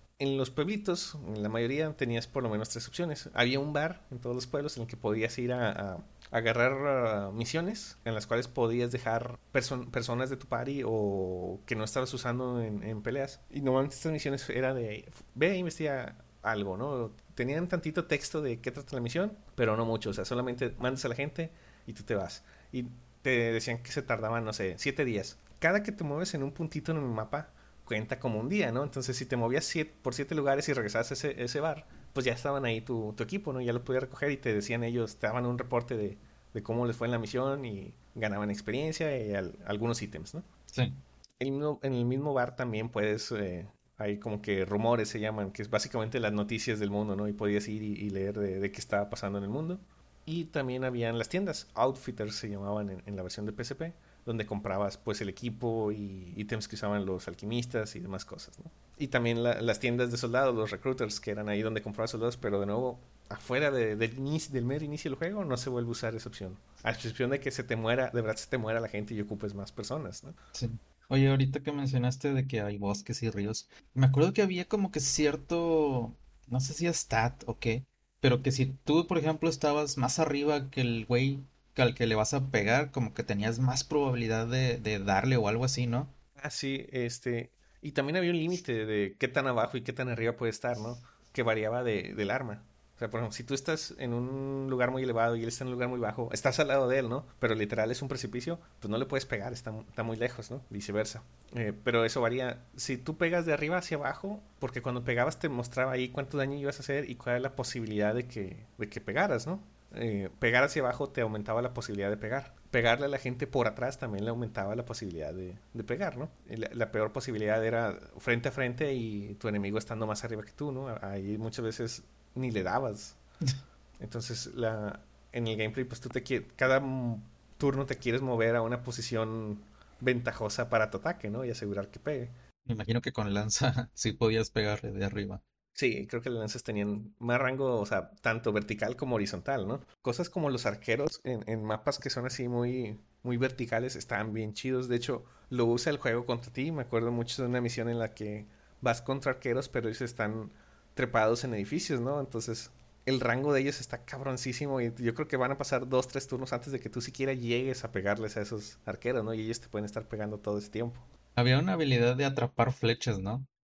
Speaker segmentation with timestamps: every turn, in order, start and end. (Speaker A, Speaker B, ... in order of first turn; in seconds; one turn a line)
Speaker A: 0.2-40.5
Speaker B: 40.7-41.0
Speaker A: 41.4-70.3
Speaker B: 70.5-86.1
Speaker A: 86.4-123.2
Speaker A: 124.0-132.3
Speaker B: 132.6-135.4
Speaker A: 135.7-161.1
Speaker B: 161.3-163.5